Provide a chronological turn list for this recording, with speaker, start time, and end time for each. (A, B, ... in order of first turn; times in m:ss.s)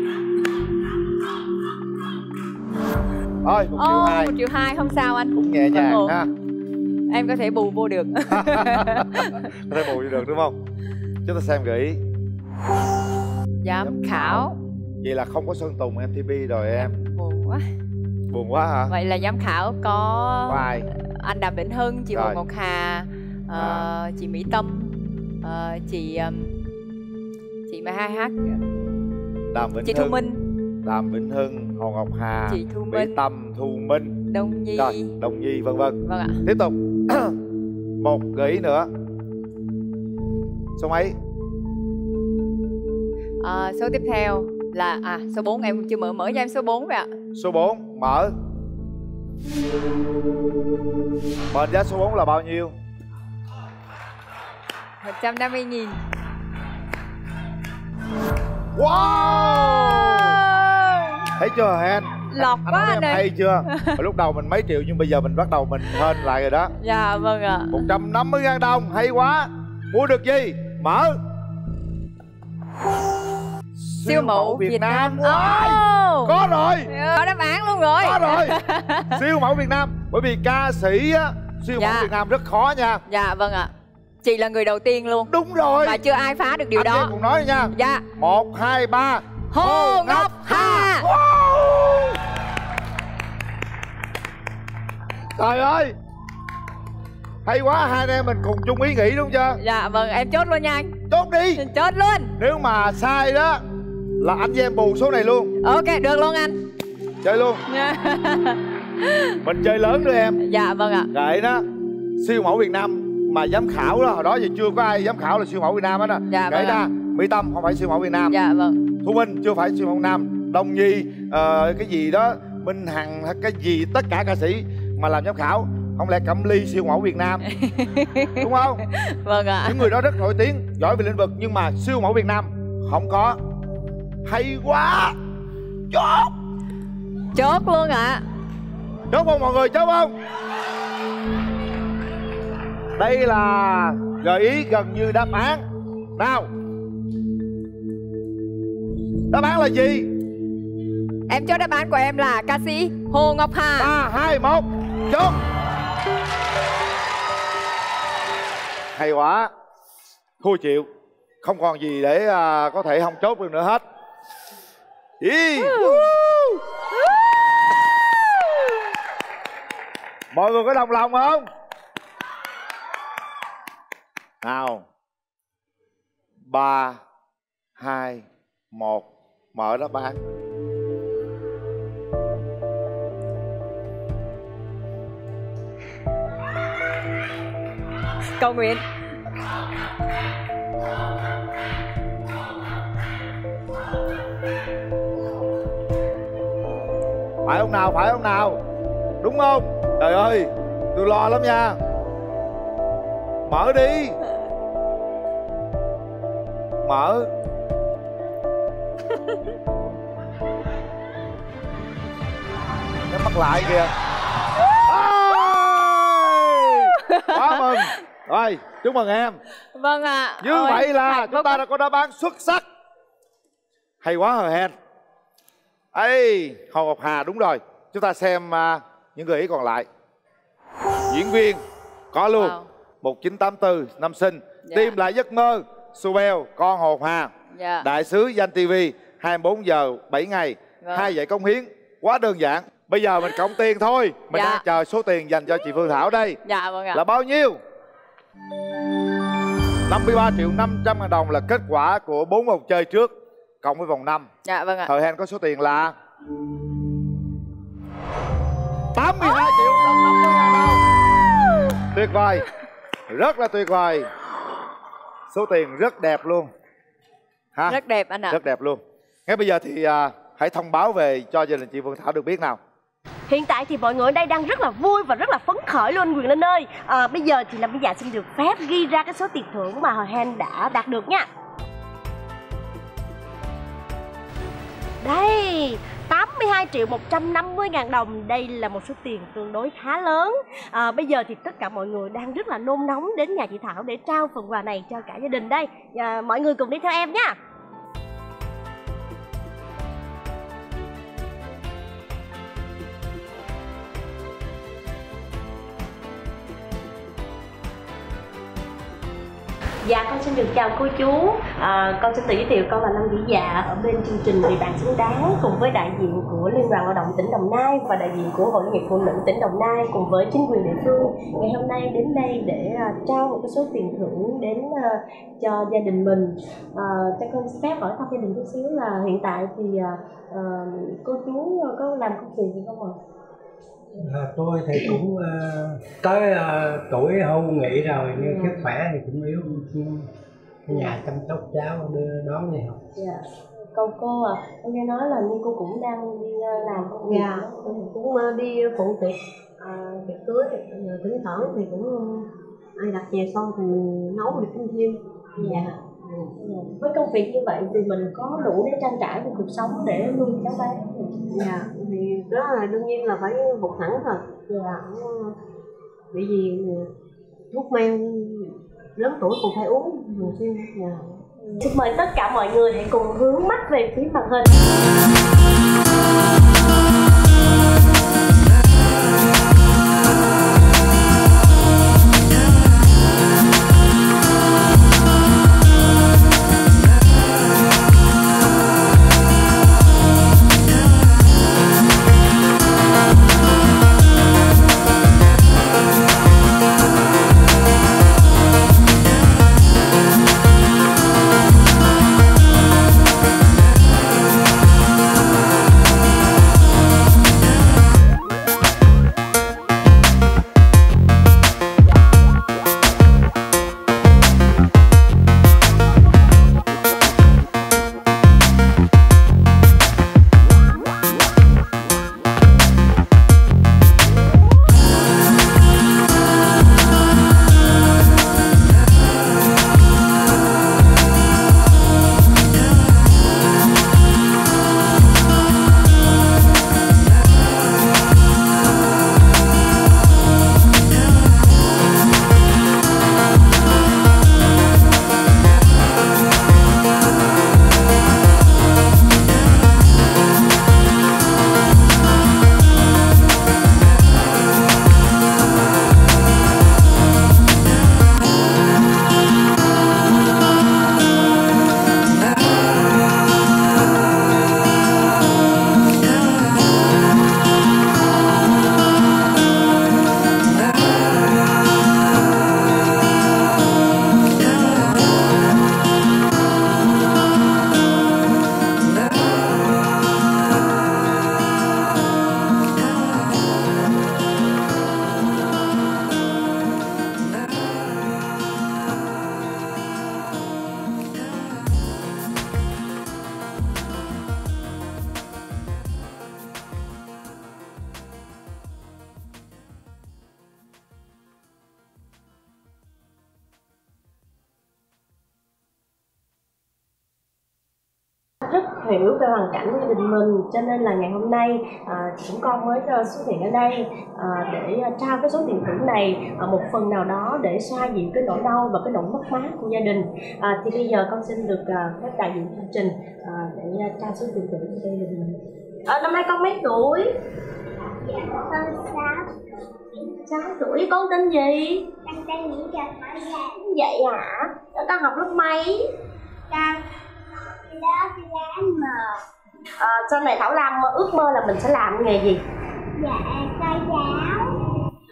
0:03.4-0:04.3 A
0:03.8-0:06.2 B
0:05.3-0:06.3 A
0:07.1-0:09.5 B
0:08.3-0:10.6 A
0:11.2-0:12.0 A
0:13.6-0:14.6 B
0:13.8-0:14.5 A
0:15.0-0:16.9 A
0:16.8-0:17.7 B
0:18.3-0:18.9 A
0:18.9-0:26.5 B
0:20.5-0:20.9 A
0:22.1-0:22.4 A
0:23.6-0:23.9 A
0:27.7-0:28.6 B
0:29.5-0:30.2 A
0:29.8-0:30.4 B
0:30.8-0:34.2 A
0:32.5-0:33.2 B
0:34.3-0:35.1 B
0:34.8-0:37.4 A
0:36.0-0:36.4 B
0:38.0-0:38.9 A
0:40.8-0:41.2 A
0:43.4-0:47.1 B
0:47.4-0:48.3 A
0:51.5-0:52.8 A
0:55.0-0:56.0 B
0:58.8-1:00.4 A
0:59.0-1:01.3 B
1:01.4-1:06.7 A
1:02.3-1:04.0 B
1:06.8-1:07.9 B
1:07.7-1:11.2 A
1:13.8-1:16.9 A
1:14.1-1:16.3 B
1:16.9-1:19.2 B
1:18.0-1:23.0 A
1:21.8-1:22.1 B
1:23.1-1:23.7 B
1:24.2-1:25.3 B
1:25.3-1:26.0 A
1:25.8-1:27.1 B
1:26.8-1:32.2 A
1:27.7-1:28.1 B
1:29.5-1:31.1 B
1:35.4-1:35.9 A
1:37.4-1:39.6 A
1:39.6-1:40.9 B
1:41.1-1:41.6 A
1:41.6-1:42.4 B
1:42.4-1:43.6 A
1:44.2-1:45.5 A
1:45.6-1:46.6 B
1:47.2-1:47.6 A
1:47.7-1:49.4 B
1:49.4-1:50.4 A
1:50.4-1:51.1 B
1:51.1-1:51.6 A
1:52.2-1:58.4 A
1:56.3-1:56.8 B
1:58.3-1:58.8 B
1:59.0-2:07.4 A
2:07.5-2:10.0 B
2:08.4-2:08.8 A
2:09.6-2:13.4 A
2:14.2-2:15.2 A
2:15.9-2:16.3 A
2:17.3-2:18.2 B
2:19.1-2:20.1 A
2:23.0-2:25.6 A
2:26.2-2:26.5 A
2:29.3-2:30.1 A
2:31.3-2:33.9 B
2:33.8-2:35.4 A
2:39.0-2:39.5 A
2:40.4-2:40.9 A
2:41.4-2:43.8 A
2:45.2-2:46.2 A
2:45.7-2:46.1 B
2:50.3-2:51.5 A
2:54.4-2:54.8 A
2:56.5-2:57.0 A
2:57.8-3:00.2 A
3:08.4-3:08.8 B
3:17.5-3:18.6 A
3:19.2-3:21.8 A
3:23.5-3:24.2 A
3:26.8-3:27.3 A
3:33.1-3:33.9 A
3:34.8-3:39.4 A
3:37.0-3:38.0 B
3:39.7-3:41.6 B
3:40.4-3:42.7 A
3:44.0-3:44.8 A
3:45.9-3:49.9 A
3:51.1-4:06.4 A
3:52.4-3:52.7 B
3:54.7-3:55.0 B
3:57.5-3:57.9 B
4:00.8-4:01.1 B
4:04.3-4:04.6 B
4:06.4-4:07.0 B
4:06.9-4:07.6 A
4:09.9-4:14.3 A
4:14.4-4:14.9 B
4:14.9-4:16.0 A
4:18.9-4:20.8 A
4:21.9-4:22.5 A
4:23.1-4:24.1 A
4:25.3-4:26.5 A
4:27.6-4:32.6 A
4:27.7-4:28.4 B
4:33.3-4:41.3 C
4:45.0-4:57.4 C
5:09.8-5:33.0 C
5:34.0-5:40.1 D
5:38.2-5:38.7 C
5:40.7-5:42.8 D
5:40.7-5:41.0 C
5:43.0-5:47.6 C
5:47.1-5:56.8 E
5:55.4-5:55.7 C
5:56.8-6:01.3 C
6:01.4-6:05.4 E
6:06.1-6:06.9 E
6:07.5-6:11.7 E
6:11.6-6:14.5 C
8:28.4-8:47.1 C
8:48.0-8:49.2 F
8:50.0-8:50.4 F
8:50.3-8:51.9 C
8:52.0-8:53.7 F
8:53.7-8:54.6 C
8:56.5-8:56.8 F
8:57.7-8:59.1 F
8:59.8-9:02.4 C
9:03.0-9:04.5 F